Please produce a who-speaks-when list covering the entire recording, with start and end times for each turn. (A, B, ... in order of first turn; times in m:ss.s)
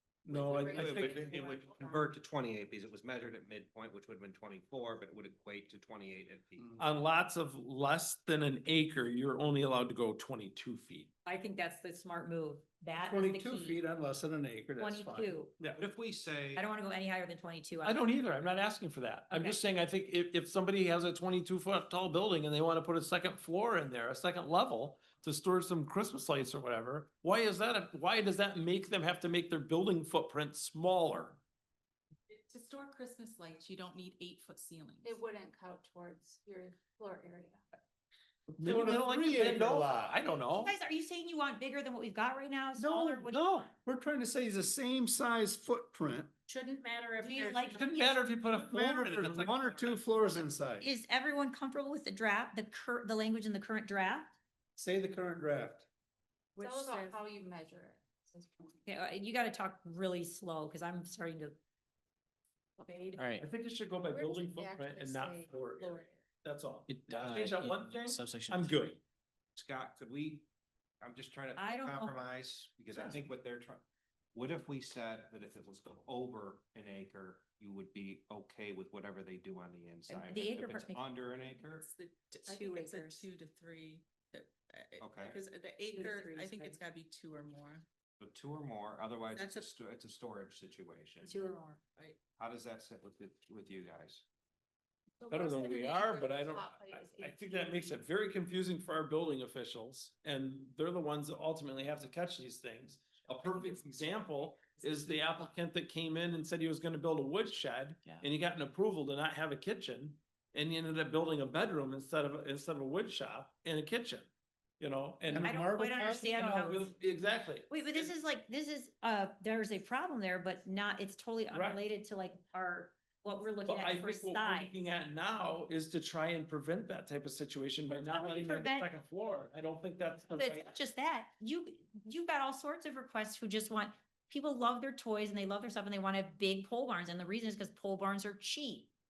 0:00.2-0:01.4 A
0:00.3-0:01.6 B
0:00.5-0:01.4 C
0:00.8-0:06.7 D
0:06.6-0:06.8 A
0:06.8-0:11.1 B
0:11.2-0:13.8 C
0:13.0-0:15.4 A
0:14.8-0:15.5 C
0:15.8-0:16.6 D
0:16.6-0:18.0 C
0:17.8-0:31.4 B
0:19.3-0:19.6 C
0:32.3-0:35.2 E
0:35.0-0:37.6 F
0:38.5-0:40.1 A
0:38.6-0:40.8 B
0:40.6-0:43.5 C
0:42.8-0:43.7 B
0:43.8-0:46.3 A
0:46.5-0:47.8 E
0:47.2-0:48.2 C
0:47.7-0:50.2 B
0:48.5-0:50.9 A
0:50.8-0:54.4 C
0:54.8-0:55.9 A
0:56.6-0:58.8 F
0:56.6-0:57.1 E
0:56.6-0:57.1 C
0:58.9-1:01.6 C
1:02.8-1:03.2 E
1:03.2-1:03.4 G
1:03.4-1:09.0 B
1:04.1-1:06.2 F
1:06.9-1:08.8 G
1:09.6-1:10.5 D
1:11.0-1:13.8 D
1:11.6-1:12.2 C
1:14.3-1:21.9 D
1:20.1-1:21.0 C
1:21.7-1:27.8 E
1:22.5-1:23.3 C
1:25.0-1:25.4 D
1:25.9-1:26.8 C
1:28.2-1:31.5 D
1:29.3-1:29.7 E
1:31.2-1:31.8 C
1:32.4-1:34.2 D
1:35.2-1:37.6 F
1:35.3-1:55.5 B
1:55.3-1:56.9 A
1:55.4-1:56.9 C
1:56.3-1:58.1 B
1:57.7-2:04.7 C
2:01.5-2:01.8 B
2:03.7-2:10.7 B
2:08.0-2:08.9 C
2:10.3-2:18.9 C